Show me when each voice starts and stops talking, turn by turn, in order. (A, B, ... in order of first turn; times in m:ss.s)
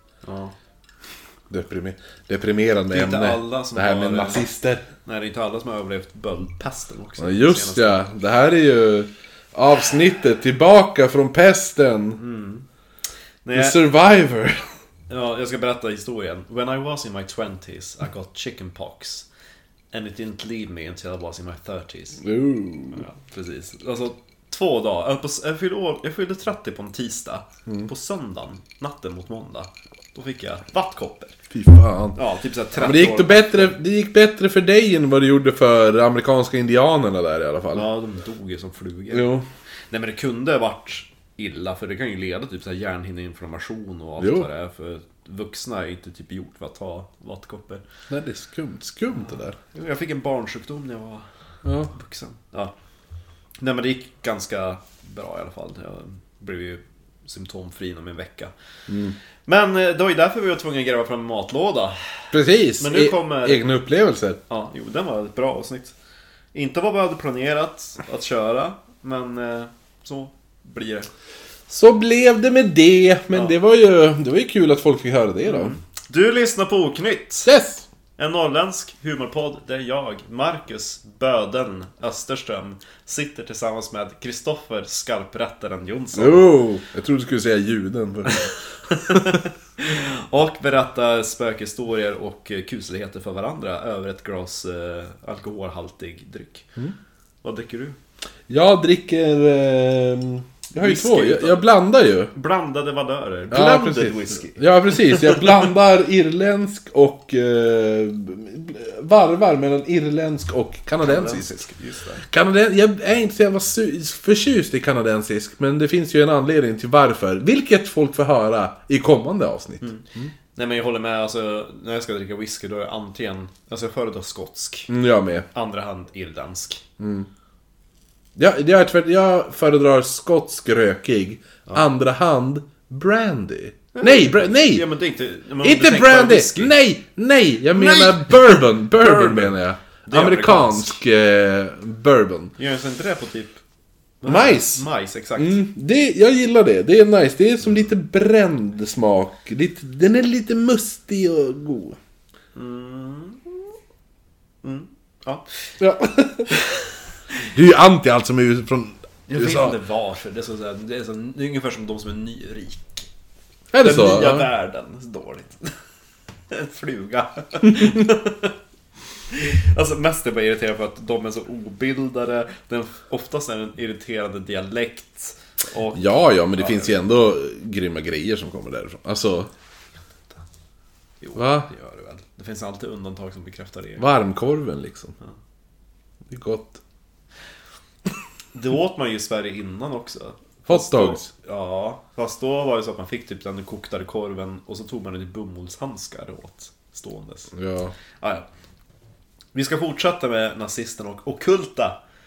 0:00.2-0:00.6 A
0:01.5-0:04.8 B
0:02.9-0:04.5 A
0:05.0-0:08.0 A
0:07.2-0:12.2 B
0:12.2-0:12.7 A
0:13.4-0:13.8 A
0:13.5-0:14.6 B
0:15.1-0:19.3 A
0:19.9-0:22.2 A
0:22.2-0:23.0 B
0:22.9-0:31.4 A
0:31.5-0:32.2 B
0:32.2-0:33.8 A
0:32.8-0:37.9 B
0:37.7-0:39.4 A
0:39.1-0:39.4 B
0:39.9-0:47.8 A
0:44.2-0:44.5 B
0:48.1-0:49.6 B
0:49.1-0:51.3 A
0:51.6-0:51.9 B
0:51.9-0:52.7 A
0:53.6-0:58.5 A
0:58.9-0:59.2 B
0:59.4-1:03.7 A
1:02.3-1:04.4 B
1:04.5-1:06.0 A
1:06.5-1:11.1 A
1:11.7-1:15.8 B
1:15.4-1:17.5 A
1:17.4-1:17.9 B
1:18.2-1:26.6 A
1:26.1-1:28.5 B
1:28.3-1:36.7 A
1:29.1-1:29.4 B
1:37.4-1:38.0 A
1:38.5-1:42.3 B
1:40.8-1:41.7 A
1:42.3-1:45.7 A
1:43.5-1:51.5 B
1:51.0-1:52.2 A
1:52.3-2:00.3 B
1:59.8-2:04.9 A
2:04.9-2:05.4 B
2:05.5-2:06.8 A
2:07.0-2:07.3 B
2:08.4-2:14.8 B
2:13.9-2:16.7 A
2:15.6-2:22.5 B
2:17.7-2:21.0 A
2:22.6-2:23.6 A
2:24.2-2:25.6 A
2:24.2-2:24.8 B
2:25.4-2:32.0 B
2:32.5-2:33.6 A
2:34.6-2:35.7 A
2:35.8-2:36.5 B
2:36.5-2:36.9 A
2:37.4-2:39.8 B
2:39.3-2:43.0 A
2:43.7-2:44.5 B
2:43.8-2:45.7 A
2:46.5-2:48.6 A
2:49.3-2:56.9 A
2:55.9-2:59.5 B
3:01.2-3:04.1 A
3:01.4-3:01.7 B
3:04.0-3:05.1 B
3:06.3-3:06.8 B
3:08.5-3:17.5 A
3:10.7-3:11.3 B
3:17.5-3:17.9 B
3:18.2-3:18.4 A
3:19.5-3:22.0 A